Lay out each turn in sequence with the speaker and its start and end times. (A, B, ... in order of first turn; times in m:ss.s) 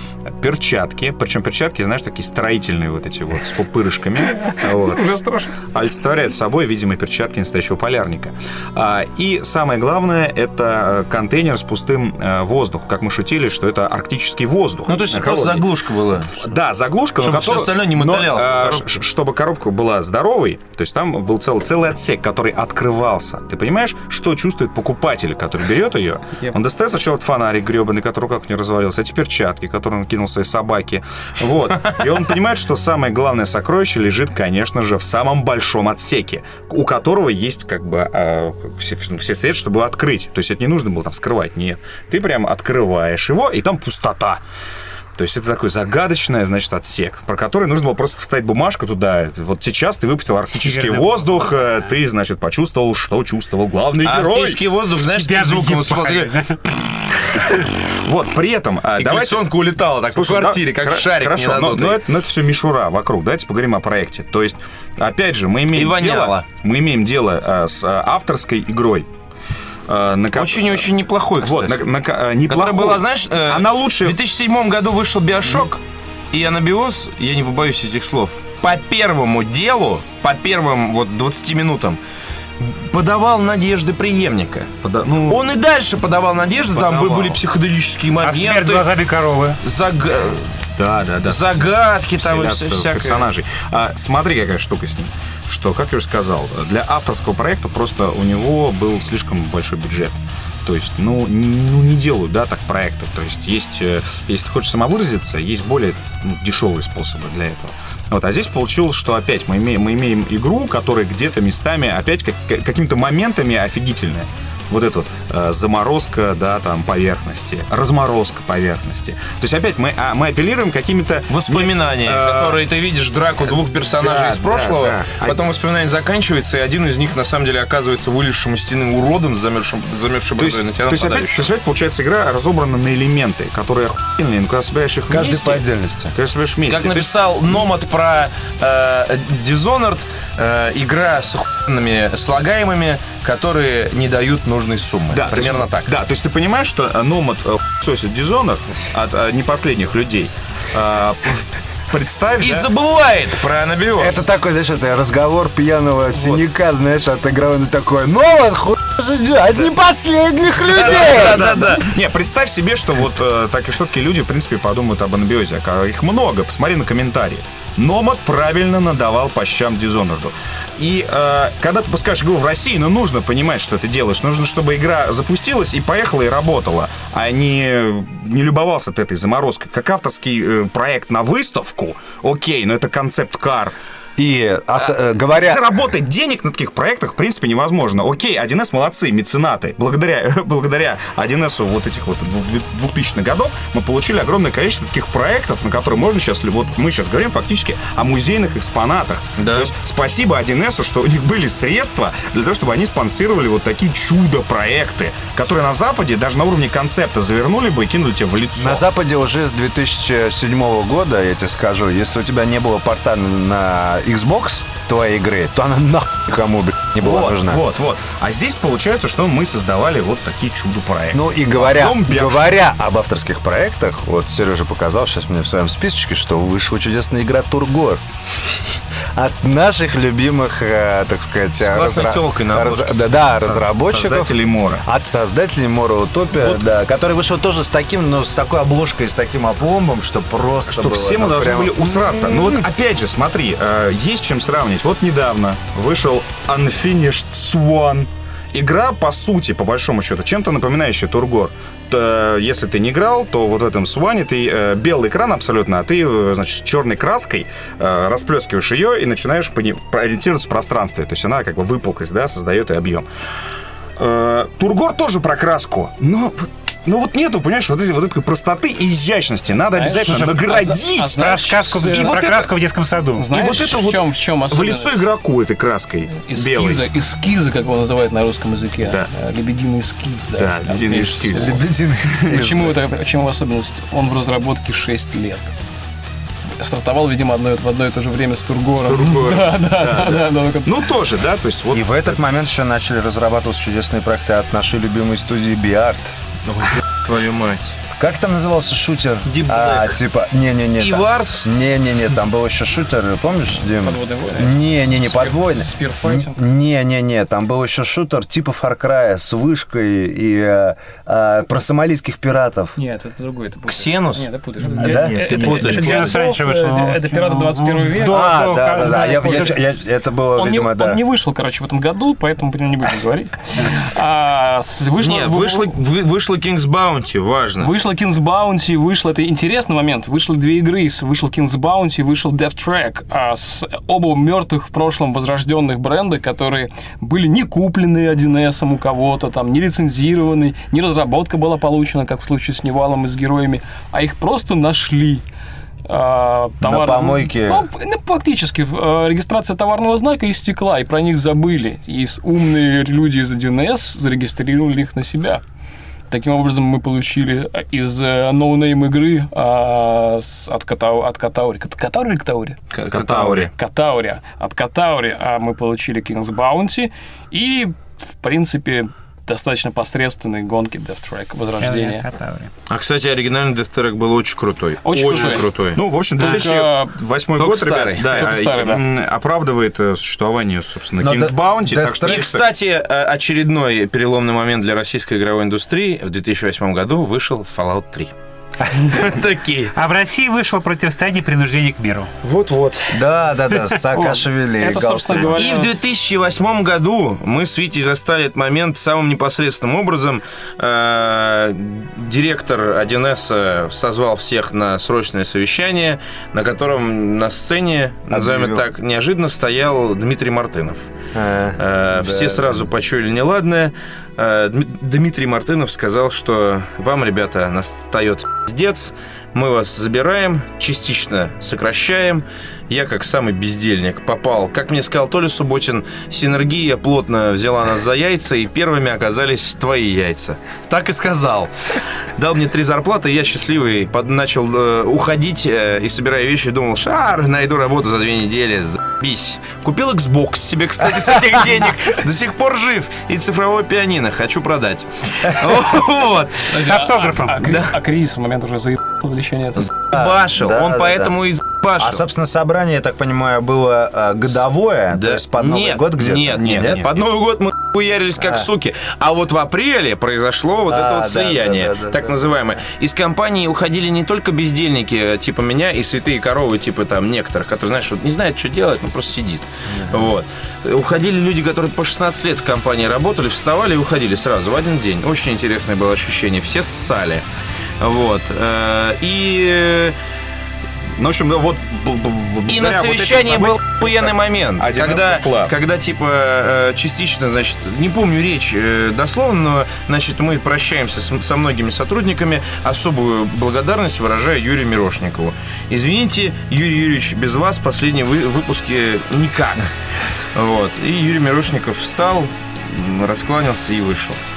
0:00.3-0:15.6 A
0:04.4-0:05.5 B
0:14.9-0:16.4 C
0:16.3-0:44.4 A
0:17.2-0:18.8 C
0:45.2-0:54.6 A
0:50.5-0:51.4 D
0:54.0-0:56.3 C
0:55.1-0:56.9 D
0:57.4-0:59.4 A
0:58.9-1:02.0 C
1:00.1-1:09.1 A
1:05.7-1:06.4 C
1:09.9-1:10.8 A
1:10.3-1:11.9 C
1:11.4-1:14.2 A
1:12.5-1:22.0 C
1:22.6-1:24.7 C
1:24.8-1:25.4 A
1:25.2-1:28.9 C
1:26.7-1:27.4 A
1:28.2-1:29.6 D
1:29.6-1:30.6 C
1:30.8-1:31.4 A
1:31.2-1:33.3 C
1:32.2-2:02.6 A
2:01.3-2:11.5 C
2:04.0-2:05.4 A
2:10.4-2:17.6 A
2:15.1-2:16.1 E
2:16.6-2:25.9 C
2:25.1-2:32.7 A
2:32.4-2:34.2 C
2:34.0-2:41.8 E
2:40.7-2:41.9 C
2:40.8-3:03.7 A
3:04.2-3:05.8 E
3:04.8-3:28.8 A
3:19.4-3:19.7 C
3:28.6-3:37.6 E
3:37.0-3:42.4 A
3:41.1-3:48.0 E
3:49.1-4:02.6 E
3:51.6-3:53.1 C
3:53.3-3:54.8 A
4:00.7-4:23.1 A
4:24.0-4:32.4 A
4:29.6-4:32.3 B
4:30.0-4:33.4 D
4:33.2-4:35.1 B
4:33.3-4:36.9 A
4:36.2-4:45.5 B
4:38.8-4:39.1 A
4:40.4-4:41.6 A
4:41.4-4:42.7 E
4:46.6-4:50.8 B
4:48.8-4:52.2 A
4:51.7-4:56.1 E
4:56.5-4:57.8 C
4:57.9-5:12.8 E
4:59.2-5:00.0 C
5:00.8-5:01.5 C
5:03.8-5:06.4 B
5:12.8-5:19.5 B
5:13.6-5:14.3 C
5:14.8-5:15.6 E
5:14.9-5:16.2 C
5:15.0-5:19.6 D
5:18.1-5:21.0 E
5:20.3-5:25.7 B
5:25.0-5:27.7 C
5:27.6-5:45.2 B
5:45.8-5:55.4 B
5:46.6-5:47.7 E
5:56.1-6:02.6 B
6:02.7-6:03.5 C
6:02.9-6:03.5 A
6:03.5-6:12.1 B
6:11.5-6:12.5 D
6:12.7-6:15.8 C
6:14.8-6:15.5 B
6:15.2-6:22.4 A
6:16.2-6:17.0 B
6:17.4-6:18.3 C
6:18.1-6:18.8 B
6:21.0-6:22.2 E
6:22.0-6:28.1 C
6:28.7-6:29.7 C
6:29.7-6:32.1 D
6:32.2-6:32.9 C
6:32.9-6:35.4 E
6:33.9-6:35.7 B
6:35.3-6:50.9 C
6:48.1-6:48.6 E
6:51.1-6:52.6 E
6:51.6-7:26.5 C
7:26.5-7:29.7 B
7:26.5-7:27.7 D
7:29.6-7:32.0 C
7:29.9-7:31.1 E
7:31.8-7:36.9 E
7:34.9-7:57.2 C
7:36.5-7:36.8 A
7:40.7-7:42.4 E
7:49.7-7:50.1 E
7:57.8-8:00.0 C
8:01.0-8:05.5 A
8:02.5-8:19.7 C
8:20.3-8:24.2 C